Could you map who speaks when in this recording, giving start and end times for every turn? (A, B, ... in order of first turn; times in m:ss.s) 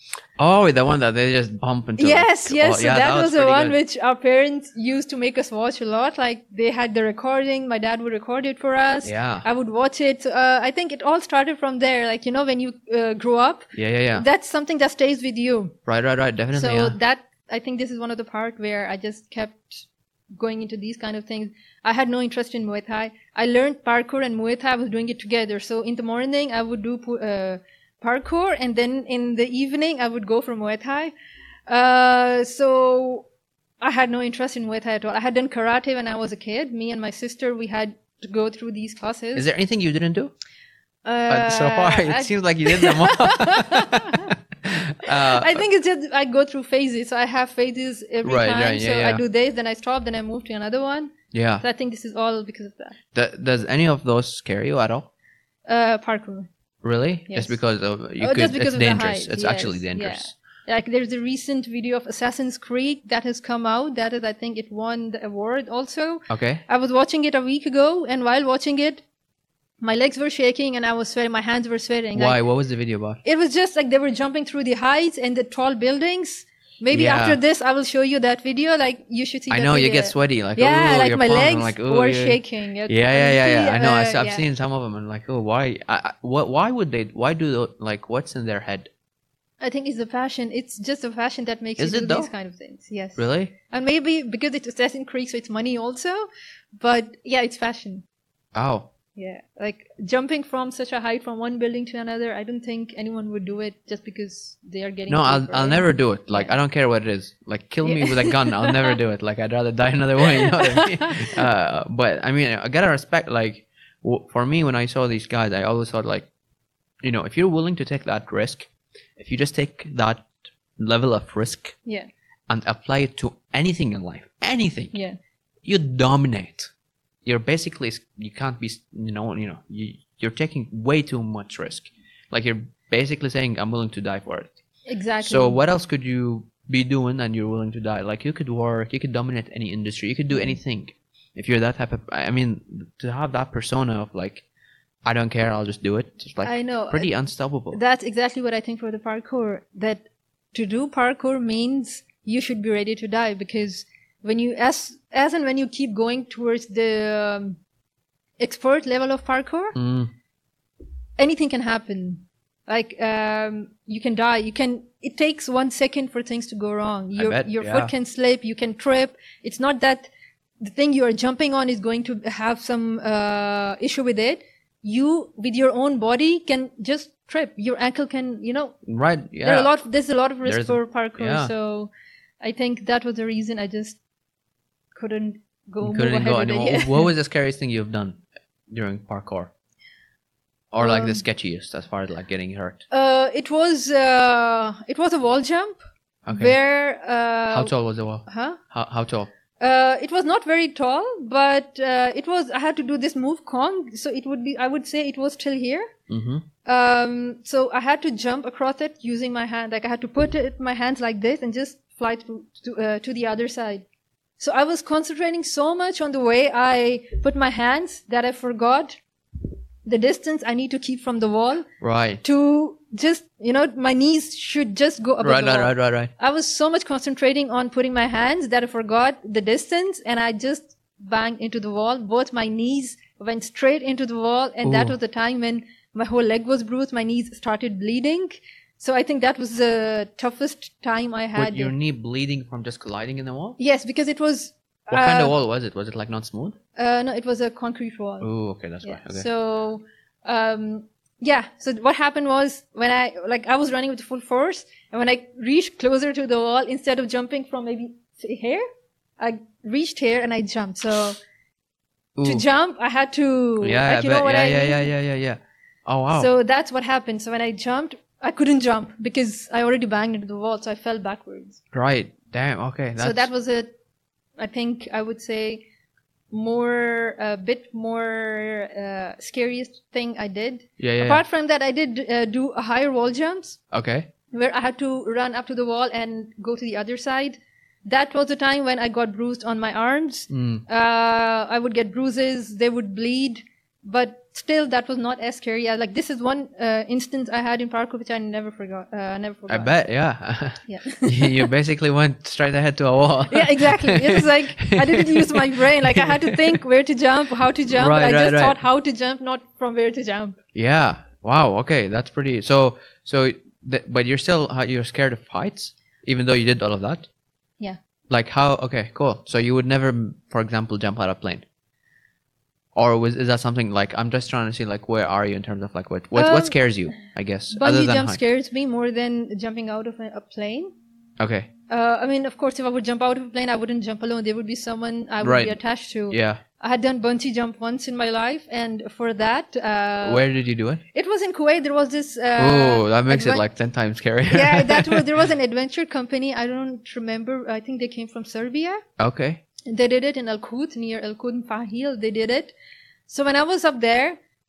0:00.4-0:03.8 A
0:02.0-0:15.8 B
0:09.0-0:09.5 A
0:13.8-0:14.2 A
0:15.9-0:17.0 A
0:16.5-0:31.1 B
0:31.7-0:33.3 B
0:33.8-0:39.5 B
0:39.4-0:40.3 A
0:41.1-0:44.3 B
0:41.3-0:45.6 A
0:45.1-0:53.0 B
0:48.2-0:49.2 A
0:51.3-0:51.6 A
0:53.1-0:55.1 A
0:55.7-0:56.5 B
0:56.8-1:00.3 A
0:57.3-0:57.6 B
0:58.2-1:09.0 B
1:06.3-1:06.6 A
1:09.8-1:12.4 B
1:12.2-1:13.2 A
1:13.2-1:24.4 B
1:16.9-1:17.4 A
1:19.5-1:28.9 A
1:29.6-1:38.0 B
1:31.8-1:32.3 A
1:33.2-1:33.5 A
1:38.5-1:38.9 A
1:39.2-1:46.5 B
1:45.1-1:56.3 A
1:47.8-1:49.0 B
1:50.2-1:51.4 B
1:57.0-2:01.8 A
2:02.5-2:05.0 A
2:05.6-2:06.7 A
2:07.2-2:14.5 A
2:14.9-2:15.6 B
2:15.2-2:24.4 A
2:20.3-2:20.6 B
2:25.0-2:27.8 A
2:26.4-2:27.1 B
2:27.7-2:37.6 B
2:38.4-2:39.8 B
2:39.8-2:40.1 A
2:41.2-2:58.8 B
2:47.2-2:47.9 A
2:58.9-2:59.7 A
2:59.4-3:04.0 B
3:00.4-3:01.5 A
3:04.9-3:07.1 B
3:05.8-3:09.5 A
3:10.7-3:12.8 A
3:10.8-3:11.2 B
3:12.9-3:15.8 B
3:16.3-3:16.6 A
3:16.3-3:17.7 B
3:17.5-3:19.3 A
3:18.3-3:18.6 B
3:19.6-3:25.9 B
3:26.1-3:26.5 A
3:26.6-3:33.8 B
3:34.4-3:39.0 B
3:39.8-3:41.7 B
3:41.8-3:42.2 A
3:42.2-4:01.7 B
3:45.2-3:46.1 A
3:54.6-3:55.0 A
4:01.4-4:03.6 A
4:03.6-4:05.4 B
4:04.9-4:06.6 A
4:06.8-4:08.3 B
4:08.2-4:09.3 A
4:08.8-4:18.6 B
4:19.2-4:21.2 B
4:22.2-4:22.4 A
4:22.2-4:24.9 B
4:23.6-4:26.3 A
4:26.1-4:31.6 B
4:31.7-4:33.3 A
4:33.0-4:33.7 B
4:34.4-4:35.6 B
4:36.3-4:43.6 B
4:40.8-4:41.2 A
4:43.7-4:44.1 A
4:44.3-4:59.7 B
4:50.3-4:50.6 A
4:59.5-5:06.6 A
5:00.7-5:01.5 B
5:03.3-5:10.4 B
5:07.7-5:08.6 A
5:10.6-5:17.1 A
5:18.1-5:21.4 A
5:22.8-5:28.2 A
5:26.2-5:26.6 B
5:27.5-5:30.7 B
5:31.2-5:31.5 A
5:31.7-5:40.2 B
5:35.2-5:35.6 A
5:36.1-5:36.4 A
5:40.0-5:40.8 A
5:40.9-5:43.4 B
5:42.4-5:45.1 A
5:44.3-5:48.8 B
5:49.0-5:49.4 A
5:49.7-5:52.5 B
5:53.1-5:54.2 B